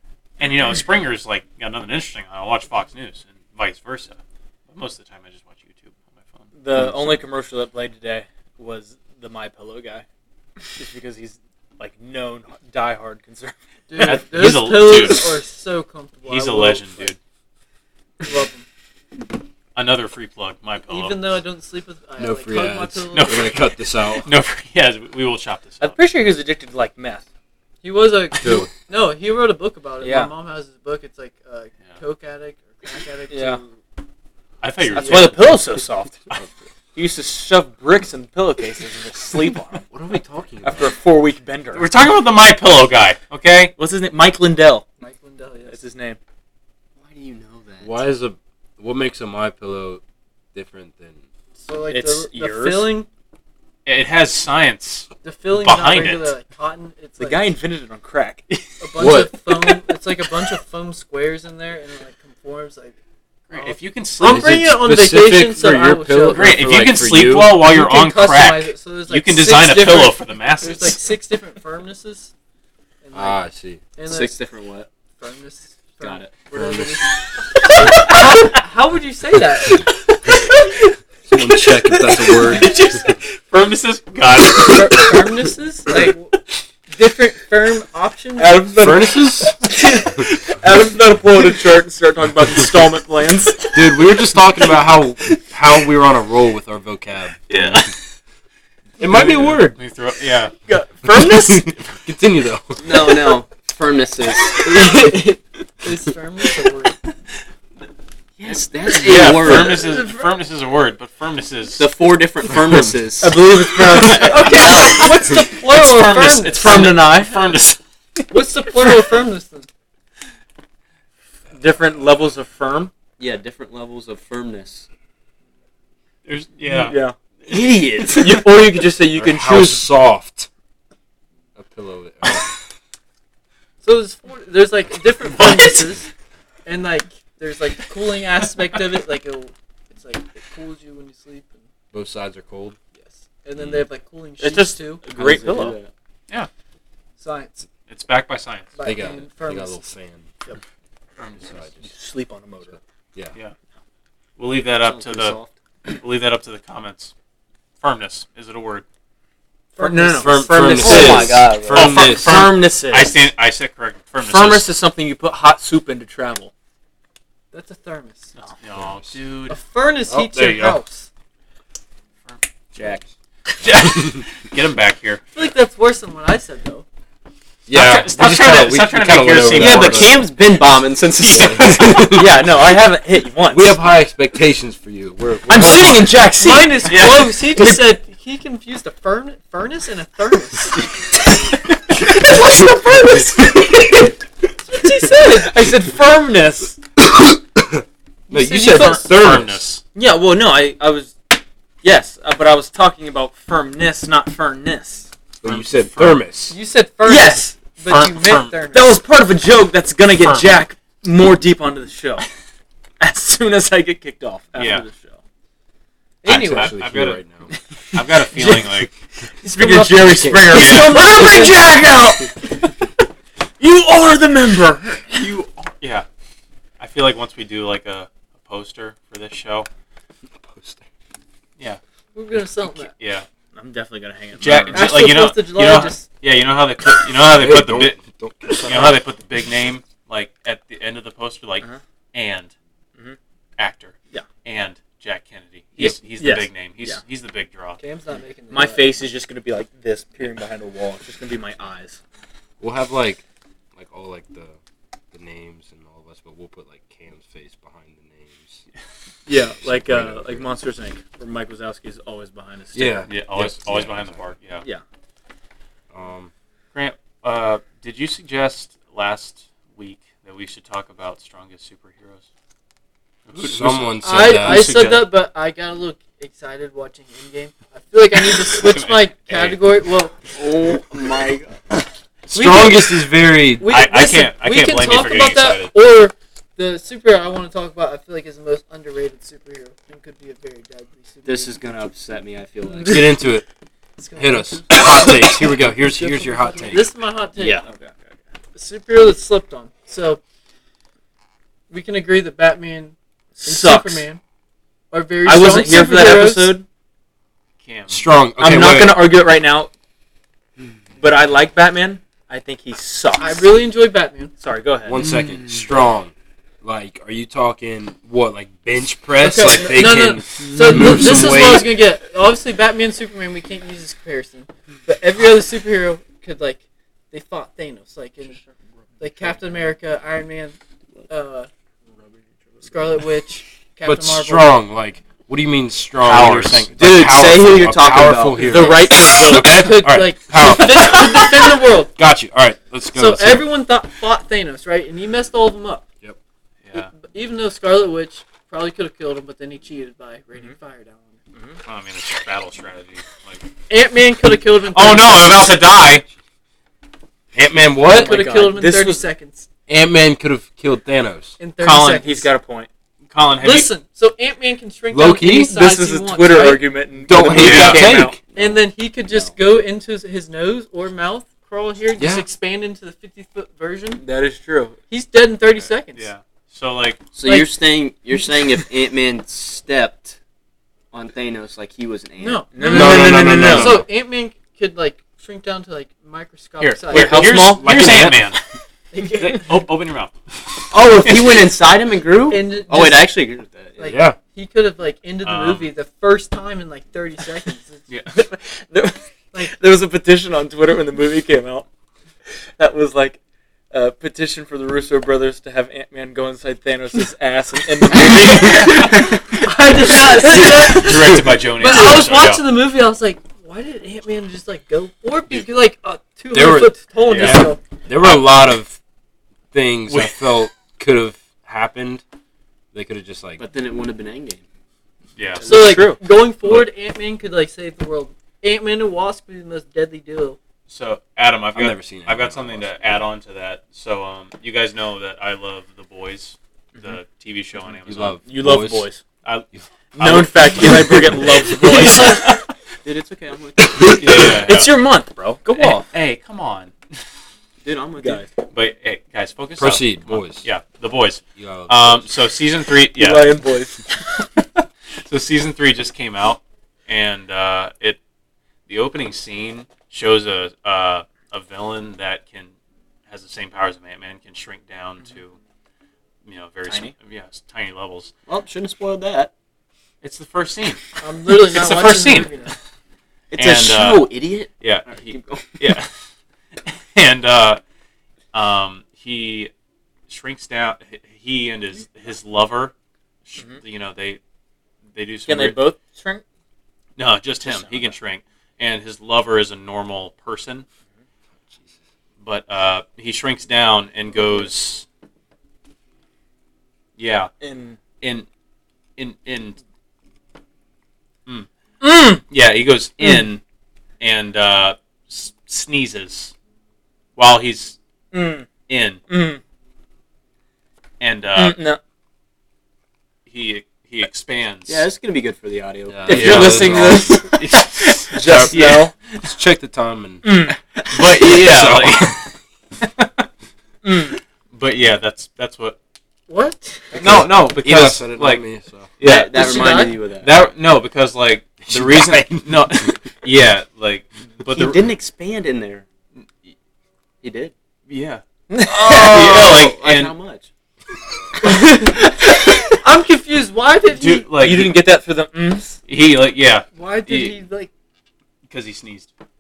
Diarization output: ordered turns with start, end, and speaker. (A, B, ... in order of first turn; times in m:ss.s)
0:00.4-0:04.2 A
0:04.7-0:06.5 A
0:06.6-0:10.0 B
0:06.8-0:07.2 C
0:10.8-0:14.1 B
0:13.9-0:17.1 D
0:14.0-0:15.4 A
0:16.3-0:17.2 A
0:18.2-0:18.6 D
0:19.8-0:21.4 A
0:20.9-0:23.6 D
0:22.2-0:24.3 C
0:23.1-0:23.5 A
0:24.1-0:26.0 A
0:25.8-0:27.2 B
0:27.8-0:33.8 D
0:28.4-0:28.7 C
0:30.0-0:30.3 B
0:33.3-0:33.6 B
0:34.6-0:35.5 A
0:34.9-0:36.3 B
0:35.0-0:35.3 D
0:36.9-0:39.8 B
0:39.9-0:40.9 C
0:40.6-0:41.9 B
0:41.7-0:43.7 A
0:43.8-0:44.8 B
0:45.0-0:45.8 D
0:45.7-0:46.2 B
0:47.0-0:47.9 E
0:47.8-0:50.0 C
0:50.5-0:51.2 C
0:51.6-0:53.1 D
0:51.9-0:53.0 B
0:53.9-0:56.3 A
0:55.2-0:57.5 D
0:57.2-0:58.4 B
0:58.8-1:03.0 D
0:59.0-0:59.4 C
1:03.5-1:04.8 A
1:03.5-1:06.6 D
1:04.2-1:07.6 C
1:06.3-1:11.0 A
1:07.6-1:12.3 D
1:13.0-1:13.4 D
1:13.1-1:13.8 C
1:14.0-1:14.4 D
1:14.1-1:14.9 E
1:15.2-1:17.2 D
1:16.0-1:16.3 E
1:16.5-1:17.0 C
1:17.7-1:19.8 D
1:21.3-1:22.8 C
1:22.3-1:25.3 A
1:24.5-1:28.8 D
1:28.4-1:33.7 B
1:28.8-1:29.5 C
1:33.7-1:37.8 C
1:37.5-1:37.9 A
1:39.0-1:39.8 C
1:39.1-1:40.5 A
1:40.7-1:41.8 B
1:41.2-1:43.1 C
1:42.8-1:44.6 E
1:44.6-1:47.0 D
1:48.4-1:49.8 E
1:49.0-1:51.9 A
1:49.2-1:50.3 D
1:51.8-1:53.4 E
1:53.2-1:54.8 B
1:54.0-1:55.3 E
1:54.1-1:58.3 A
1:54.1-1:57.0 D
1:56.5-1:57.6 B
1:58.3-1:59.7 D
2:01.5-2:02.9 B
2:03.2-2:04.9 E
2:06.2-2:07.0 A
2:06.6-2:07.1 B
2:07.5-2:08.4 E
2:08.1-2:09.9 B
2:09.2-2:10.5 C
2:11.6-2:12.5 C
2:13.8-2:16.1 D
2:15.4-2:15.8 A
2:16.6-2:21.6 D
2:21.9-2:22.8 C
2:23.0-2:25.1 D
2:24.4-2:25.8 B
2:25.1-2:25.9 E
2:27.2-2:27.7 D
2:27.9-2:28.7 A
2:28.7-2:29.8 D
2:28.8-2:30.3 C
2:31.2-2:31.4 A
2:31.4-2:31.9 C
2:31.8-2:32.8 B
2:34.4-2:37.1 A
2:34.8-2:35.5 E
2:37.8-2:38.8 A
2:39.8-2:40.5 D
2:39.8-2:43.2 B
2:40.2-2:42.5 C
2:40.6-2:42.2 E
2:41.7-2:44.7 A
2:44.2-2:46.5 B
2:47.5-2:48.4 D
2:48.4-2:49.6 A
2:48.8-2:49.2 C
2:49.5-2:51.1 D
2:50.1-2:50.8 C
2:53.6-2:55.2 A
2:53.9-2:54.2 C
2:55.3-2:56.8 D
2:57.7-3:00.2 C
2:57.7-3:00.3 A
2:59.5-3:02.2 E
3:01.2-3:02.2 A
3:01.3-3:02.3 C
3:02.1-3:03.8 B
3:03.5-3:06.1 C
3:05.5-3:07.9 B
3:06.4-3:10.9 D
3:06.8-3:07.4 A
3:12.0-3:13.6 D
3:14.7-3:15.5 D
3:15.1-3:16.8 B
3:17.0-3:19.6 C
3:18.3-3:19.2 D
3:18.8-3:19.8 A
3:19.9-3:25.1 B
3:25.4-3:26.6 C
3:26.5-3:29.0 D
3:27.0-3:27.6 B
3:27.9-3:28.6 A
3:28.7-3:32.3 B
3:30.1-3:30.6 A
3:33.0-3:35.2 B
3:34.6-3:34.8 A
3:36.2-3:36.8 D
3:36.3-3:37.2 A
3:36.3-3:37.5 C
3:37.9-3:38.7 B
3:37.9-3:39.0 A
3:39.4-3:42.4 B
3:39.4-3:40.7 D
3:40.1-3:40.6 C
3:40.5-3:41.1 A
3:43.6-3:45.3 B
3:45.2-3:46.1 A
3:46.8-3:49.7 A
3:50.2-3:50.8 C
3:52.1-3:52.9 D
3:52.7-3:53.3 A
3:53.6-3:54.9 B
3:54.4-3:58.0 A
3:54.7-3:56.1 D
3:57.3-3:58.9 C
3:58.6-4:02.5 A
4:03.6-4:07.8 A
4:05.8-4:07.0 B
4:07.8-4:09.0 D
4:08.5-4:12.0 B
4:12.6-4:13.2 C
4:13.8-4:14.6 C
4:15.1-4:18.6 C
4:19.3-4:23.1 B
4:19.4-4:20.5 C
4:22.7-4:24.2 C
4:23.1-4:24.6 A
4:25.9-4:26.3 C
4:26.7-4:32.2 A
4:33.3-4:35.1 A
4:33.4-4:34.7 C
4:34.0-4:40.3 D
4:38.5-4:39.6 A
4:40.3-4:41.6 E
4:42.3-4:43.7 C
4:42.3-4:43.1 D
4:43.6-4:51.7 D
4:43.7-4:45.7 A
4:51.2-4:53.2 E
4:52.6-4:53.1 D
4:52.9-4:53.4 C
4:54.0-4:57.6 D
4:54.2-4:56.9 C
4:57.4-4:57.6 E
4:57.5-4:57.9 B
4:58.6-5:00.2 D
5:01.7-5:04.2 D
5:03.4-5:04.0 B
5:04.9-5:06.6 D
5:05.2-5:06.6 B
5:07.6-5:08.0 A
5:07.9-5:09.1 C
5:08.4-5:09.7 B
5:11.0-5:13.5 B
5:13.2-5:14.3 D
5:14.4-5:15.0 B
5:14.8-5:21.7 C
5:19.2-5:28.4 D
5:29.0-5:30.6 D
5:31.1-5:31.5 D
5:32.6-5:34.5 D
5:33.8-5:41.4 C
5:36.0-5:36.7 A
5:36.8-5:38.7 E
5:38.4-5:39.8 B
5:39.2-5:41.9 D
5:42.0-5:43.5 C
5:42.9-5:45.9 D
5:46.6-5:46.9 A
5:46.8-5:51.2 D
5:51.3-5:51.6 B
5:51.6-5:53.4 A
5:53.7-5:55.6 D
5:54.6-5:56.0 A
5:57.3-5:58.2 C
5:57.9-5:59.1 B
5:57.9-5:59.5 D
5:59.7-6:01.3 C
6:01.4-6:02.3 D
6:01.6-6:02.7 B
6:03.1-6:03.7 A
6:03.4-6:06.9 D
6:04.9-6:05.5 C
6:05.4-6:08.2 B
6:07.0-6:08.2 C
6:07.4-6:07.9 A
6:08.3-6:09.4 E
6:08.3-6:14.0 D
6:12.0-6:12.3 C
6:14.0-6:14.8 B
6:14.9-6:16.1 D
6:15.6-6:17.0 A
6:17.1-6:20.2 E
6:20.9-6:22.4 E
6:22.2-6:27.6 D
6:22.5-6:23.8 B
6:22.6-6:23.9 C
6:26.6-6:28.4 A
6:26.9-6:28.3 B
6:27.7-6:28.0 C
6:28.9-6:29.6 D
6:29.2-6:30.1 A
6:30.7-6:34.0 E
6:30.9-6:31.5 A
6:32.3-6:33.1 D
6:33.8-6:37.9 D
6:33.8-6:34.2 C
6:35.2-6:35.7 A
6:38.1-6:41.6 B
6:42.6-6:43.2 B
6:43.7-6:49.0 B
6:48.3-6:57.6 D
6:48.3-6:52.4 A
6:56.3-6:58.8 C
6:57.0-6:57.5 A
6:58.0-6:58.3 A
6:59.5-7:02.0 C
6:59.9-7:00.2 A
7:02.7-7:03.4 C
7:03.4-7:04.4 E
7:05.2-7:05.8 A
7:05.4-7:10.4 D
7:05.4-7:06.0 B
7:10.7-7:18.2 A
7:11.6-7:12.9 C
7:17.9-7:18.9 C
7:18.2-7:19.0 B
7:19.2-7:22.5 A
7:19.9-7:22.3 B
7:22.8-7:24.0 E
7:23.8-7:24.8 A
7:24.1-7:25.9 B
7:25.6-7:26.7 A
7:27.6-7:28.3 E
7:28.0-7:28.2 B
7:28.5-7:33.3 A
7:29.6-7:30.4 C
7:31.4-7:32.1 C
7:33.0-7:33.8 B
7:34.2-7:38.0 A
7:38.7-7:42.5 A
7:43.1-7:45.4 A
7:46.2-7:48.1 A
7:46.6-7:46.9 B
7:48.3-7:49.3 E
7:50.0-7:52.5 A
7:51.0-7:52.6 D
7:53.3-7:55.7 E
7:53.3-7:55.9 A
7:56.6-7:57.6 A
7:58.3-7:59.5 A
8:00.1-8:02.7 A
8:03.3-8:04.2 A
8:04.9-8:05.6 A
8:05.3-8:06.2 B
8:07.0-8:10.6 A
8:07.4-8:08.0 B
8:11.5-8:11.7 C
8:12.2-8:14.9 A
8:17.0-8:17.3 A
8:17.4-8:17.8 B
8:18.0-8:18.3 A
8:19.0-8:19.6 A
8:21.8-8:22.2 B
8:22.2-8:23.4 A
8:24.0-8:26.3 A
8:27.2-8:27.8 A
8:28.1-8:28.5 B
8:28.7-8:29.0 A
8:29.1-8:29.4 B
8:31.0-8:31.6 A
8:31.4-8:31.8 B
8:33.3-8:34.9 A
8:34.7-8:36.3 E
8:35.9-8:37.3 C
8:36.1-8:38.9 B
8:36.1-8:39.2 A
8:38.2-8:38.6 C
8:39.2-8:40.2 C
8:40.2-8:40.6 B
8:40.9-8:43.2 A
8:41.2-8:42.2 C
8:43.8-8:44.2 B
8:44.5-8:45.8 A
8:46.3-8:47.2 D
8:46.9-8:48.9 C
8:46.9-8:48.5 A
8:49.0-8:54.9 A
8:49.0-8:50.3 E
8:49.3-8:50.0 D
8:51.6-8:53.0 C
8:54.5-8:55.9 E
8:57.2-8:57.5 E
8:57.9-8:58.2 A
8:58.5-8:59.6 B
8:58.8-9:00.5 E
8:58.9-9:00.1 A
9:02.8-9:04.3 D
9:03.9-9:04.8 A
9:04.3-9:05.8 B
9:05.9-9:07.4 A
9:06.8-9:07.7 D
9:08.5-9:09.1 A